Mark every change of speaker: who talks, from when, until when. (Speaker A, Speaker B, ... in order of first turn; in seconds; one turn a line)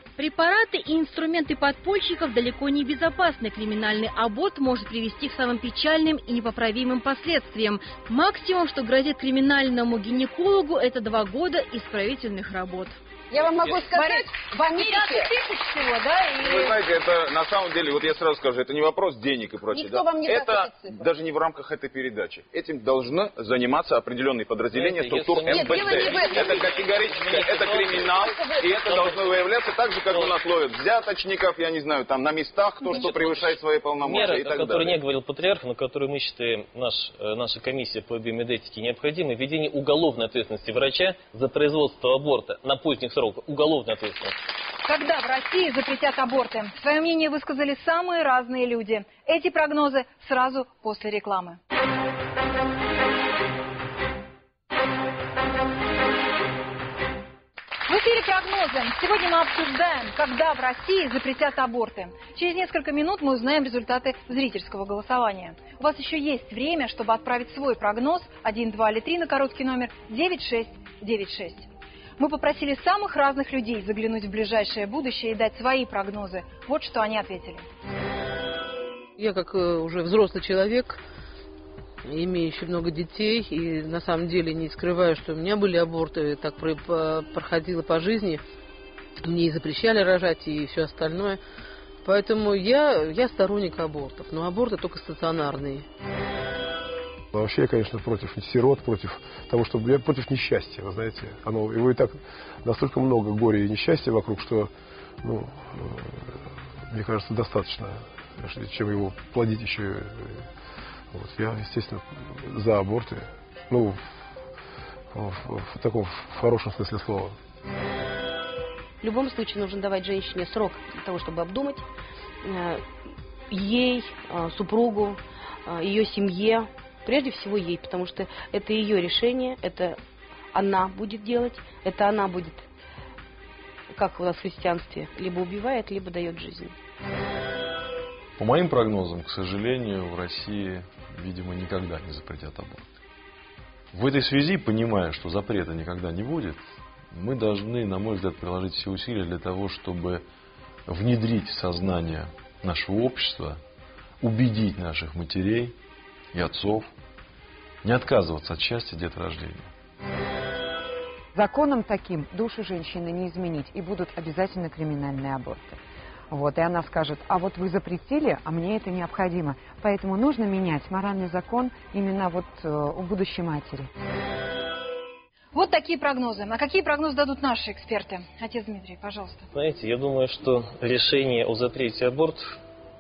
Speaker A: 0.2-13.0
Speaker B: 13.3-15.3
Speaker C: 13.9-16.8
Speaker D: 16.4-35.0
Speaker B: 19.7-21.1
Speaker E: 24.7-28.2
Speaker B: 25.4-26.7
Speaker B: 28.1-28.8
Speaker E: 28.8-29.3
Speaker E: 32.9-44.4
Speaker C: 44.9-51.6
Speaker C: 57.9-77.7
Speaker F: 79.2-81.0
Speaker F: 82.0-88.4
Speaker F: 89.2-91.4
Speaker F: 92.0-95.9
Speaker G: 97.3-104.7
Speaker G: 105.2-110.5
Speaker G: 111.1-114.0
Speaker G: 115.1-117.4
Speaker H: 119.0-121.8
Speaker H: 122.4-122.8
Speaker H: 123.5-130.0
Speaker H: 130.5-132.7
Speaker H: 133.9-136.7
Speaker I: 138.4-142.9
Speaker I: 143.9-150.2
Speaker I: 150.9-153.6
Speaker I: 154.2-155.7
Speaker I: 156.3-156.9
Speaker I: 157.8-159.7
Speaker J: 161.3-165.8
Speaker J: 166.3-173.9
Speaker C: 175.5-179.5
Speaker E: 179.5-182.6